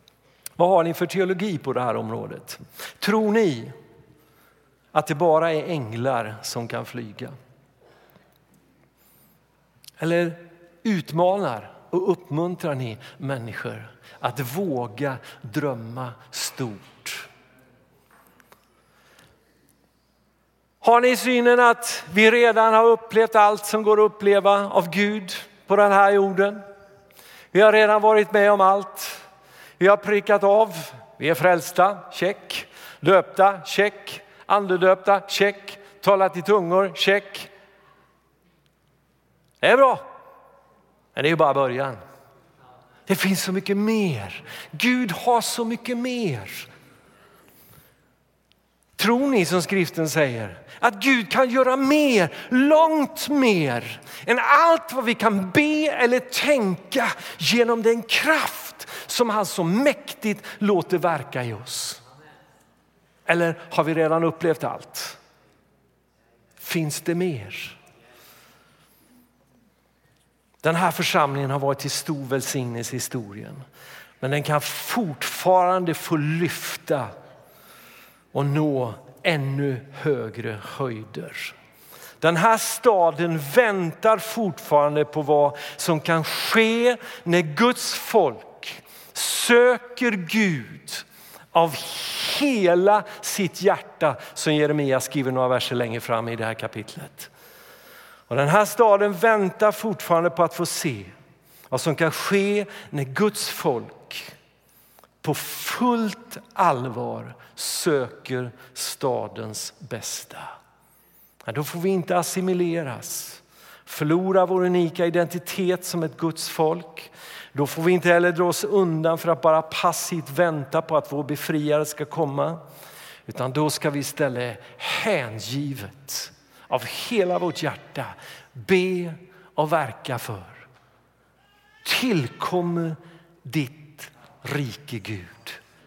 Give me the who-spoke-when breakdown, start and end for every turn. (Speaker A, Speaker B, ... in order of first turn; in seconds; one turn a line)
Speaker A: 0.6-3.7
Speaker A: 4.9-7.3
Speaker A: 10.0-17.3
Speaker A: 20.8-26.6
Speaker A: 27.5-29.2
Speaker A: 29.8-37.5
Speaker A: 39.6-40.0
Speaker A: 41.1-42.0
Speaker A: 43.1-46.7
Speaker A: 49.0-62.0
Speaker A: 63.2-65.2
Speaker A: 66.6-67.8
Speaker A: 70.6-73.6
Speaker A: 74.2-77.1
Speaker A: 78.3-81.5
Speaker A: 82.2-97.3
Speaker A: 98.3-101.1
Speaker A: 101.7-104.3
Speaker A: 105.2-110.5
Speaker A: 111.4-122.6
Speaker A: 123.2-130.7
Speaker A: 131.8-135.6